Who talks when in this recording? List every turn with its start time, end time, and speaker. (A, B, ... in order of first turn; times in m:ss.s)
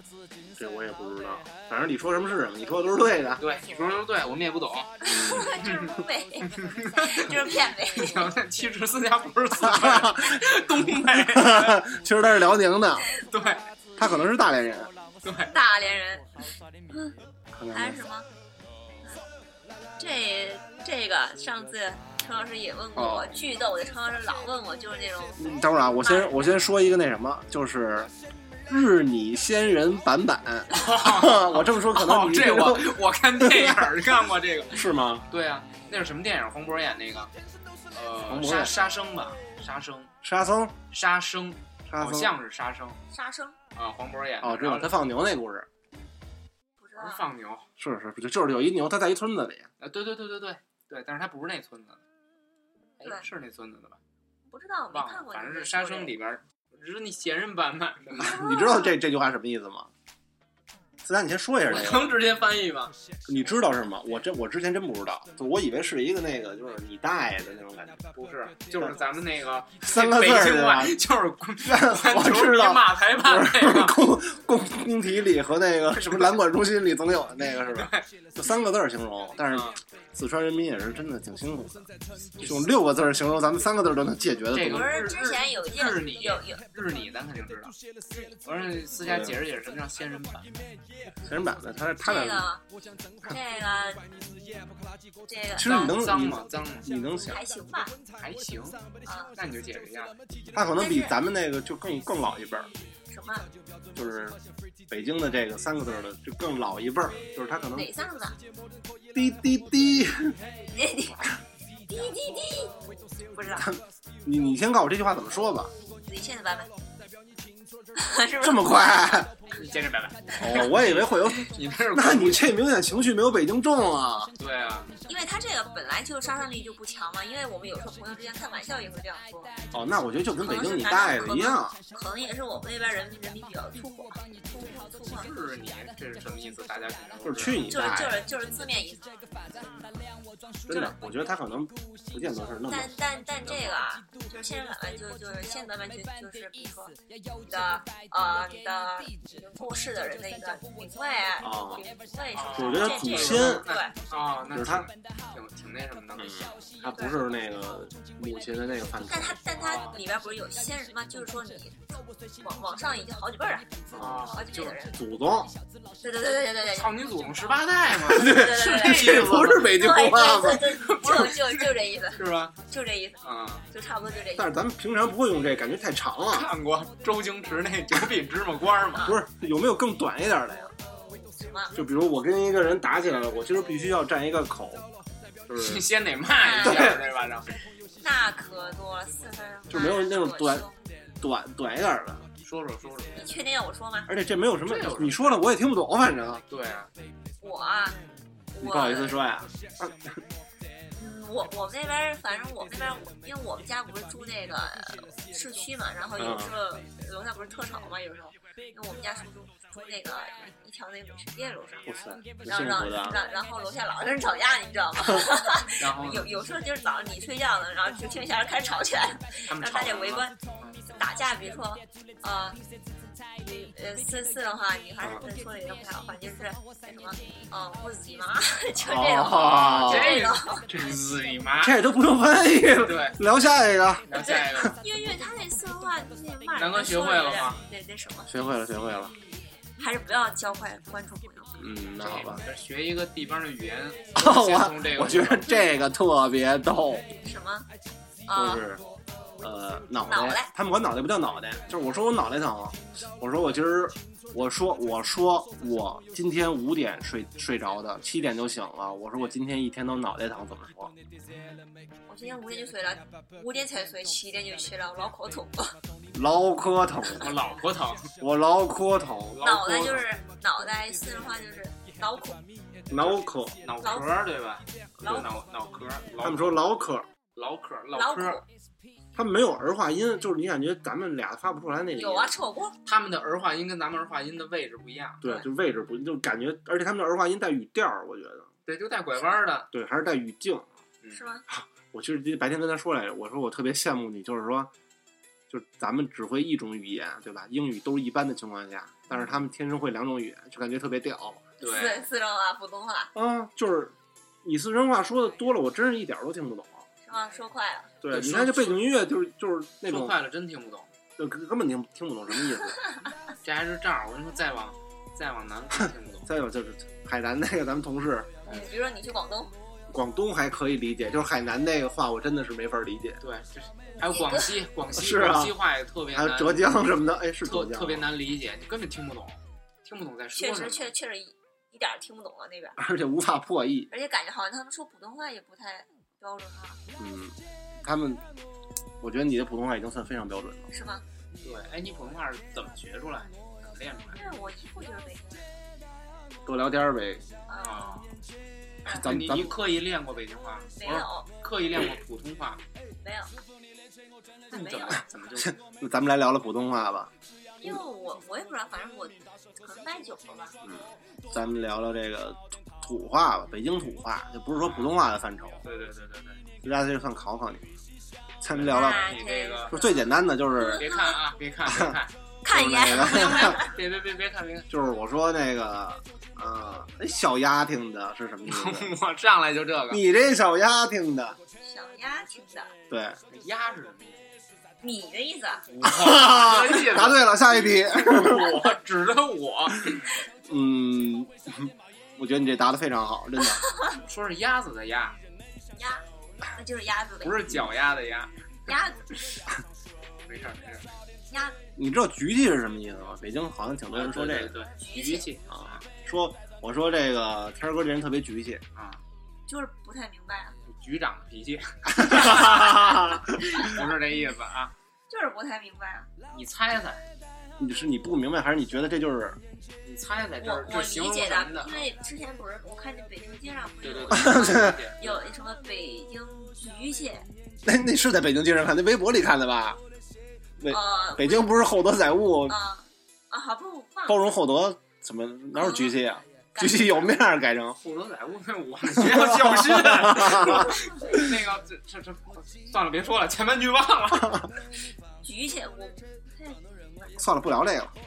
0:00.6-0:03.4 A
0:03.4-0:06.0 B
0:05.0-0:08.3 C
0:05.1-0:05.5 A
0:06.5-0:07.4 B
0:07.9-0:11.8 B
0:09.6-0:10.4 A
0:11.1-0:13.1 A
0:13.3-0:13.6 B
0:14.0-0:14.9 A
0:15.2-0:15.5 B
0:15.5-0:16.3 C
0:16.9-0:17.2 C
0:17.5-0:18.0 A
0:17.7-0:18.3 C
0:20.0-0:26.4 C
0:23.0-0:23.4 A
0:25.4-0:28.1 A
0:28.7-0:34.0 A
0:30.7-0:37.3 B
0:34.7-0:35.3 A
0:37.9-0:40.1 B
0:38.3-0:38.7 A
0:40.2-0:40.8 A
0:40.9-0:43.0 B
0:41.9-0:42.3 A
0:43.1-0:43.6 C
0:43.8-0:45.0 B
0:44.4-0:45.7 A
0:46.8-0:47.2 C
0:47.0-0:47.7 B
0:47.8-0:49.7 A
0:49.8-0:52.0 B
0:53.0-0:54.0 B
0:54.5-0:56.1 C
0:54.9-0:58.3 B
0:58.2-0:59.0 C
0:58.2-0:59.9 A
1:01.0-1:02.2 A
1:01.7-1:02.9 B
1:03.3-1:08.0 A
1:08.1-1:14.0 B
1:09.8-1:11.0 A
1:11.6-1:21.9 A
1:17.8-1:18.1 B
1:19.5-1:19.8 B
1:22.4-1:22.7 B
1:22.4-1:25.0 A
1:24.5-1:27.8 B
1:24.7-1:26.6 C
1:28.4-1:30.5 B
1:29.0-1:29.4 A
1:31.2-1:32.5 A
1:32.0-1:32.6 C
1:33.2-1:34.0 C
1:35.2-1:36.0 C
1:35.6-1:37.4 A
1:35.6-1:36.9 B
1:37.3-1:38.0 C
1:38.1-1:38.8 B
1:39.0-1:39.3 C
1:39.4-1:40.2 B
1:40.5-1:42.7 A
1:40.8-1:41.2 C
1:43.1-1:43.5 C
1:44.0-1:44.4 A
1:44.9-1:47.9 A
1:47.8-1:48.4 C
1:49.1-1:50.4 A
1:50.7-1:51.2 C
1:51.9-1:53.7 C
1:53.6-1:55.7 A
1:56.0-1:56.7 C
1:58.0-1:59.1 C
1:58.4-1:59.3 A
1:59.5-2:02.5 B
2:00.4-2:04.3 A
2:04.4-2:04.9 B
2:05.1-2:09.5 C
2:09.7-2:11.8 A
2:10.4-2:15.3 C
2:15.1-2:17.7 B
2:17.2-2:18.2 A
2:17.7-2:19.3 C
2:19.5-2:20.0 B
2:20.7-2:23.8 A
2:22.7-2:33.9 C
2:31.4-2:31.9 A
2:32.3-2:36.4 B
2:32.5-2:33.7 A
2:34.5-2:34.9 A
2:36.2-2:39.4 A
2:36.9-2:37.2 C
2:39.1-2:43.7 C
2:39.6-2:40.0 B
2:43.9-2:44.3 A
2:44.0-2:44.8 B
2:44.3-2:45.0 C
2:44.9-2:45.5 A
2:46.0-2:46.9 C
2:46.7-2:49.7 B
2:47.9-2:50.8 A
2:48.1-2:54.6 C
2:50.8-2:52.5 B
2:53.2-2:53.7 B
2:54.4-2:56.5 A
2:56.3-2:59.1 B
2:59.0-3:00.7 A
3:01.0-3:01.8 C
3:01.8-3:04.8 A
3:05.5-3:05.9 A
3:05.5-3:07.5 B
3:06.4-3:07.0 C
3:06.6-3:07.0 A
3:08.0-3:10.9 C
3:09.7-3:10.7 A
3:11.2-3:12.3 A
3:12.4-3:13.4 B
3:13.2-3:14.1 C
3:14.1-3:16.4 A
3:14.6-3:15.4 B
3:16.5-3:16.9 B
3:17.4-3:18.0 C
3:18.5-3:19.2 C
3:18.6-3:20.2 A
3:21.0-3:31.9 C
3:26.2-3:26.5 A
3:31.9-3:33.2 A
3:32.5-3:40.3 C
3:35.8-3:36.3 B
3:39.5-3:40.8 B
3:40.9-3:42.6 C
3:43.4-3:50.7 C
3:48.8-3:50.8 A
3:49.3-3:51.8 B
3:51.6-3:54.7 A
3:52.8-3:53.2 B
3:54.1-3:54.8 B
3:54.1-3:58.3 C
3:56.6-3:57.6 B
3:58.3-3:59.1 A
3:59.8-4:01.7 C
4:01.6-4:02.4 A
4:02.0-4:05.5 B
4:04.2-4:07.0 A
4:07.2-4:07.7 C
4:08.3-4:08.6 C
4:08.3-4:08.8 A
4:09.4-4:20.9 A
4:10.1-4:10.5 C
4:22.1-4:25.8 C
4:26.1-4:27.3 A
4:27.2-4:28.1 B
4:28.2-4:30.0 A
4:29.4-4:29.9 B
4:29.4-4:32.4 C
4:32.9-4:33.6 A
4:33.0-4:36.6 B
4:33.8-4:34.1 C
4:35.0-4:35.3 C
4:36.2-4:37.1 A
4:37.4-4:38.4 B
4:37.9-4:38.4 C
4:39.1-4:42.3 A
4:42.0-4:42.8 C
4:42.9-4:45.3 B
4:45.2-4:48.5 A
4:48.7-4:49.7 B
4:49.7-4:50.7 A
4:51.1-4:51.4 C
4:51.5-4:54.7 A
4:55.5-5:01.5 A
5:01.6-5:03.1 C
5:01.6-5:02.1 B
5:03.1-5:06.9 A
5:07.1-5:07.9 C
5:08.0-5:10.2 A
5:08.1-5:08.9 B
5:09.9-5:10.9 B
5:11.2-5:12.8 A
5:13.4-5:16.3 B
5:16.3-5:18.5 A
5:18.5-5:19.5 C
5:19.9-5:23.2 A
5:23.2-5:26.7 B
5:23.9-5:24.5 C
5:24.9-5:25.6 A
5:26.1-5:28.1 A
5:27.4-5:30.9 B
5:30.4-5:32.8 C
5:32.8-5:33.9 A
5:33.9-5:36.8 C
5:37.0-5:38.2 A
5:39.0-5:40.7 A
5:40.7-5:41.0 C
5:41.4-5:44.2 B
5:44.1-5:45.6 C
5:46.5-5:47.3 A
5:47.5-5:47.9 C
5:47.6-5:48.1 B
5:48.9-5:49.6 A
5:48.9-5:52.6 B
5:50.8-5:51.3 C
5:53.0-5:53.4 C
5:54.5-5:55.0 C
5:54.5-5:55.6 B
5:55.4-5:57.1 A
5:57.6-6:00.6 C
6:00.6-6:05.6 A
6:04.6-6:04.9 B
6:05.6-6:06.4 B
6:06.6-6:07.7 A
6:08.4-6:09.1 A
6:08.5-6:09.8 B
6:08.7-6:11.2 C
6:09.7-6:10.9 A
6:10.6-6:12.1 B
6:11.7-6:12.0 A
6:12.4-6:13.7 C
6:12.5-6:13.6 A
6:12.9-6:14.7 B
6:14.7-6:18.9 A
6:18.5-6:20.0 B
6:19.9-6:21.4 A
6:21.6-6:22.7 C
6:22.9-6:23.2 A
6:23.3-6:24.2 B
6:24.8-6:25.6 C
6:25.7-6:30.0 B
6:25.8-6:28.7 A
6:30.5-6:33.6 A
6:33.6-6:33.9 C
6:34.0-6:35.2 B
6:35.7-6:37.5 C
6:37.2-6:38.3 B
6:38.7-6:39.2 C
6:40.3-6:40.9 B
6:41.3-6:41.6 C
6:41.8-6:44.6 A
6:43.9-6:45.8 B
6:44.8-6:45.3 C
6:45.5-6:48.6 A
6:48.8-6:49.0 B
6:49.5-6:50.5 C
6:50.6-6:54.7 B
6:51.9-6:53.3 A
6:55.1-6:56.1 C
6:56.3-6:57.0 B
6:57.6-6:59.4 A
6:59.8-7:01.9 B
7:00.4-7:07.3 C
7:03.8-7:05.3 B
7:04.1-7:04.9 A
7:07.6-7:09.8 A
7:10.6-7:12.6 A
7:10.7-7:11.6 C
7:12.5-7:14.3 C
7:14.1-7:17.8 A
7:15.5-7:16.0 C
7:16.5-7:17.2 C
7:17.8-7:24.5 B
7:18.9-7:20.7 A
7:25.2-7:27.1 C
7:27.2-7:27.9 A